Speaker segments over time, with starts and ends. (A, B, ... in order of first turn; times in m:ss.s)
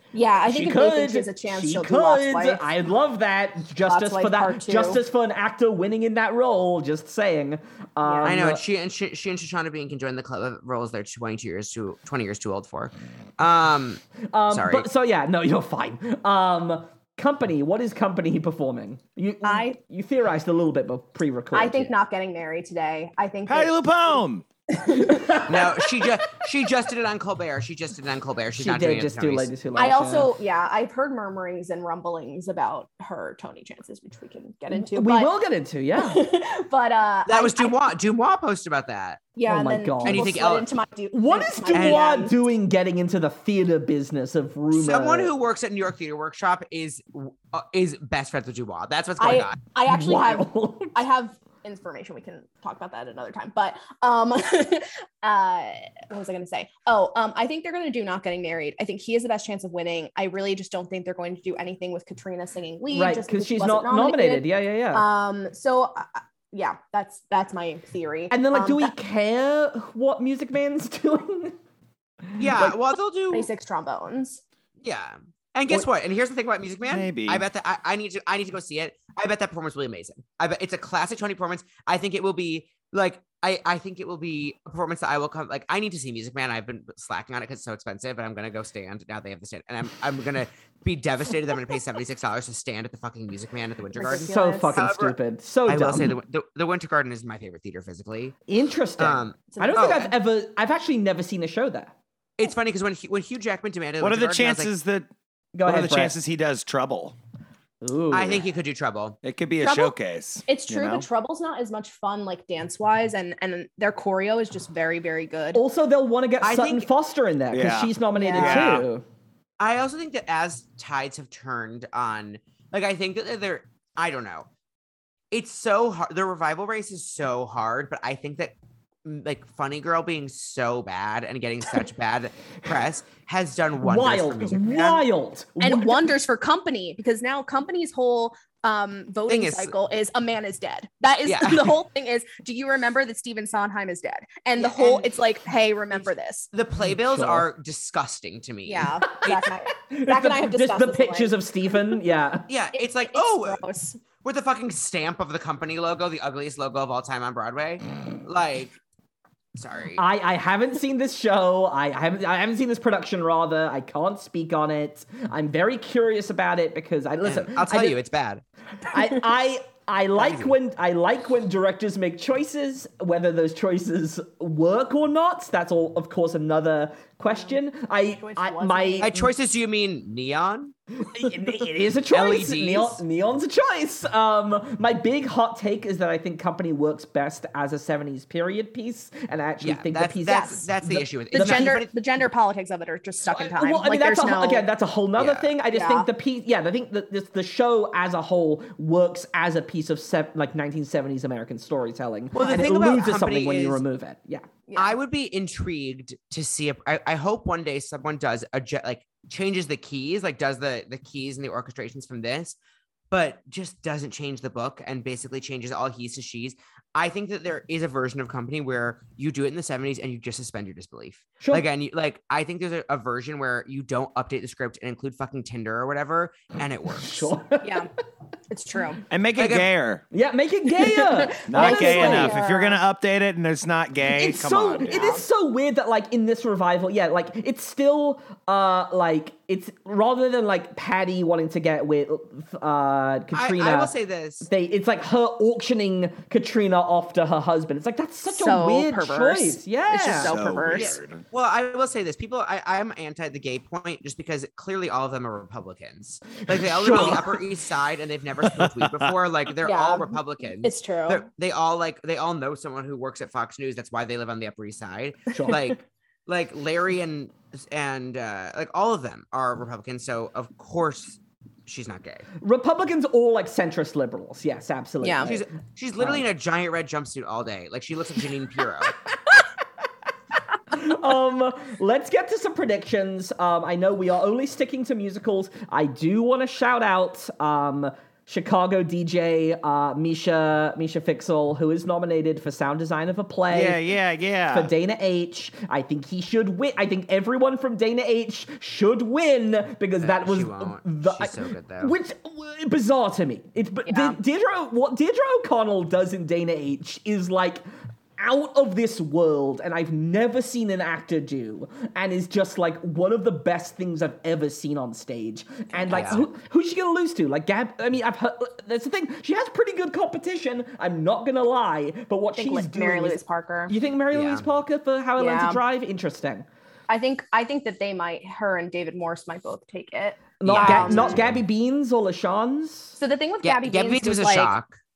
0:00.1-0:02.6 A
0:00.4-0:08.6 B
0:03.8-0:05.0 A
0:08.0-0:08.3 A
0:08.2-0:14.9 C
0:14.3-0:21.9 B
0:19.4-0:19.8 A
0:21.5-0:24.2 A
0:23.5-0:24.4 D
0:24.7-0:25.8 A
0:25.0-0:25.7 B
0:25.4-0:29.5 C
0:28.5-0:30.3 B
0:29.7-0:35.3 A
0:34.7-0:36.2 B
0:36.0-0:37.8 A
0:37.2-0:39.3 C
0:39.4-0:42.3 A
0:39.4-0:40.4 B
0:40.0-0:40.7 C
0:41.1-0:45.3 B
0:41.7-0:42.0 C
0:44.7-0:49.6 C
0:49.2-1:08.9 A
0:49.9-0:50.9 B
1:02.9-1:05.0 B
1:08.3-1:11.6 B
1:12.2-1:12.8 B
1:12.4-1:13.5 C
1:13.3-1:14.4 A
1:14.8-1:35.2 C
1:16.9-1:17.4 D
1:34.0-1:34.8 A
1:34.2-1:36.1 B
1:35.7-1:38.4 C
1:38.5-1:41.9 B
1:39.0-1:40.1 C
1:39.5-1:40.1 A
1:42.4-1:44.7 C
1:44.0-1:45.1 D
1:45.5-1:46.2 B
1:45.6-1:47.2 D
1:47.8-1:48.4 B
1:48.1-1:49.2 C
1:49.2-1:51.0 D
1:49.6-1:49.9 A
1:50.5-1:55.6 A
1:55.5-1:59.0 B
1:56.4-1:56.9 C
1:57.5-1:58.9 D
1:58.1-1:58.6 A
1:59.6-2:04.5 C
2:05.3-2:15.0 C
2:13.8-2:16.1 B
2:15.6-2:26.5 A
2:19.3-2:19.7 C
2:21.2-2:21.8 C
2:24.6-2:25.1 C
2:26.5-2:29.4 C
2:26.9-2:27.4 B
2:28.6-2:31.3 A
2:29.9-2:32.5 B
2:32.5-2:33.6 C
2:32.7-2:34.0 A
2:34.2-2:38.8 C
2:39.5-2:40.0 C
2:39.9-2:48.0 B
2:47.2-2:48.4 C
2:48.9-2:59.3 B
2:50.2-2:50.5 C
2:58.2-2:59.1 A
2:59.0-3:00.7 C
3:01.0-3:11.7 B
3:02.1-3:03.0 C
3:09.6-3:11.9 C
3:10.3-3:10.6 A
3:11.3-3:14.7 A
3:13.3-3:24.5 B
3:15.2-3:15.5 C
3:15.7-3:16.1 A
3:22.3-3:23.8 C
3:24.7-3:25.0 A
3:24.7-3:32.6 C
3:33.1-3:47.3 C
3:41.4-3:41.6 B
3:46.9-3:47.8 B
3:47.6-3:47.9 A
3:48.5-3:49.0 A
3:49.1-3:50.0 D
3:49.4-3:49.7 C
3:50.1-3:52.4 B
3:50.8-3:52.8 A
3:51.5-3:55.1 D
3:54.0-4:10.4 B
3:54.9-3:55.2 A
4:03.3-4:04.5 C
4:08.3-4:11.0 A
4:10.1-4:11.2 D
4:10.7-4:32.3 C
4:16.5-4:17.4 B
4:18.5-4:19.1 D
4:19.6-4:20.1 A
4:20.6-4:21.2 A
4:25.3-4:25.7 B
4:32.4-4:35.4 B
4:35.0-4:35.3 A
4:35.2-4:39.0 C
4:36.0-4:36.2 B
4:40.7-4:53.8 B
4:53.5-4:54.7 D
4:54.5-5:07.6 B
5:00.0-5:01.9 C
5:03.8-5:04.2 A
5:08.2-5:26.5 B
5:15.9-5:16.2 C
5:22.3-5:23.7 A
5:24.1-5:24.4 C
5:25.2-5:25.6 A
5:26.9-5:31.2 A
5:30.4-5:33.0 B
5:30.4-5:31.2 C
5:33.0-5:34.5 A
5:33.4-5:34.8 C